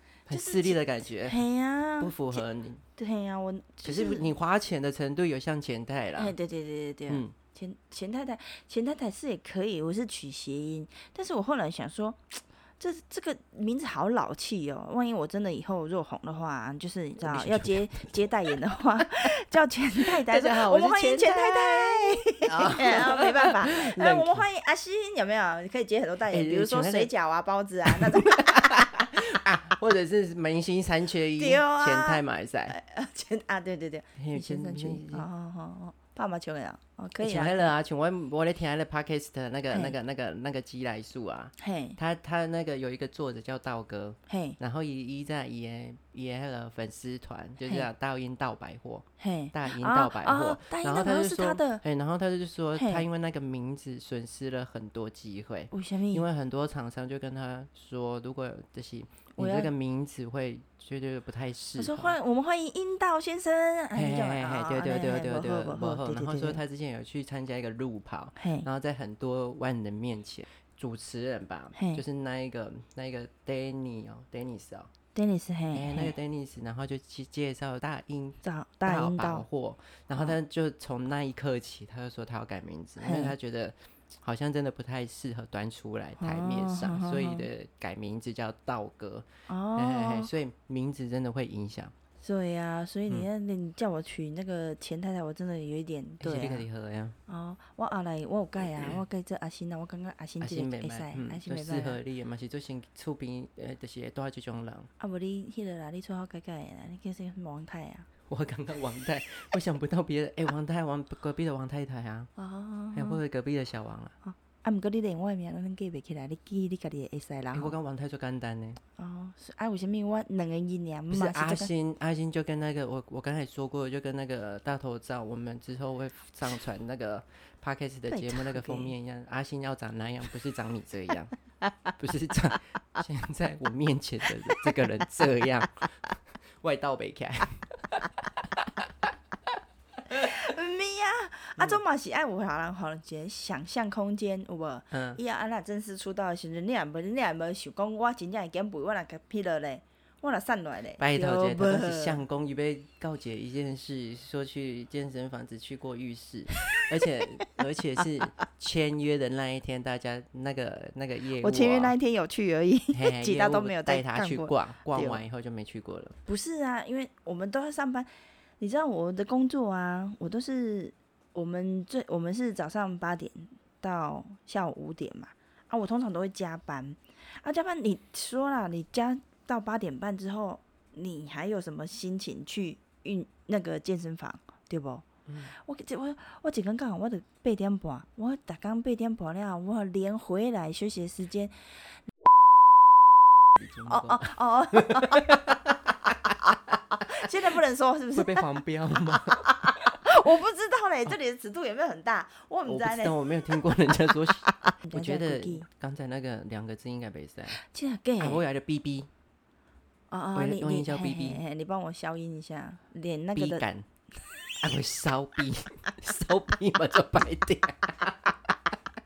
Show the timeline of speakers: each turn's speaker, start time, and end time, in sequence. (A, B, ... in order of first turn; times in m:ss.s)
0:00.3-0:01.4 A
0:00.3-0:02.4 B
0:02.0-0:02.8 A
0:03.0-0:04.3 B
0:03.8-0:06.3 A
0:06.2-0:29.1 B
0:07.1-0:07.3 A
0:17.2-0:18.0 A
0:20.0-0:24.4 A
0:26.3-0:27.1 A
0:27.8-0:32.8 A
0:31.4-0:37.7 B
0:34.2-0:35.2 A
0:37.2-1:02.2 A
0:39.7-0:40.0 B
0:41.6-0:42.0 B
0:44.3-0:44.6 B
0:47.6-0:47.9 B
0:49.2-0:51.8 B
0:52.8-0:53.0 B
0:55.7-0:56.3 B
0:59.4-0:59.7 B
1:01.8-1:06.6 B
1:03.9-1:14.9 A
1:08.4-1:08.7 B
1:11.7-1:12.0 B
1:15.1-1:16.1 B
1:15.7-1:31.9 A
1:18.4-1:19.4 B
1:23.0-1:23.3 B
1:26.2-1:27.5 B
1:29.5-1:30.3 B
1:32.2-1:36.6 B
1:36.2-1:37.2 A
1:37.3-1:42.0 B
1:40.4-1:44.9 A
1:45.0-1:48.1 B
1:48.3-1:52.3 A
1:52.4-1:53.2 B
1:52.9-1:54.1 A
1:54.2-1:57.7 B
1:57.5-1:58.8 A
1:59.0-2:01.7 B
2:01.1-2:11.3 A
2:08.1-2:08.9 B
2:12.0-2:16.0 A
2:16.6-2:19.1 A
2:20.1-2:32.2 B
2:24.9-2:25.2 A
2:31.0-2:41.9 A
2:41.4-2:45.2 B
2:42.9-2:46.1 A
2:46.2-2:48.1 B
2:48.6-3:11.7 B
3:05.3-3:05.5 A
3:13.6-3:16.8 A
3:13.8-3:15.6 B
3:16.9-3:18.5 B
3:18.1-3:19.9 A
3:19.3-3:23.2 B
3:22.6-3:27.6 A
3:24.2-3:25.7 B
3:27.5-3:28.4 B
3:28.2-3:29.1 A
3:30.1-3:33.6 B
3:30.3-3:31.4 A
3:33.4-3:33.8 A
3:34.6-3:38.8 A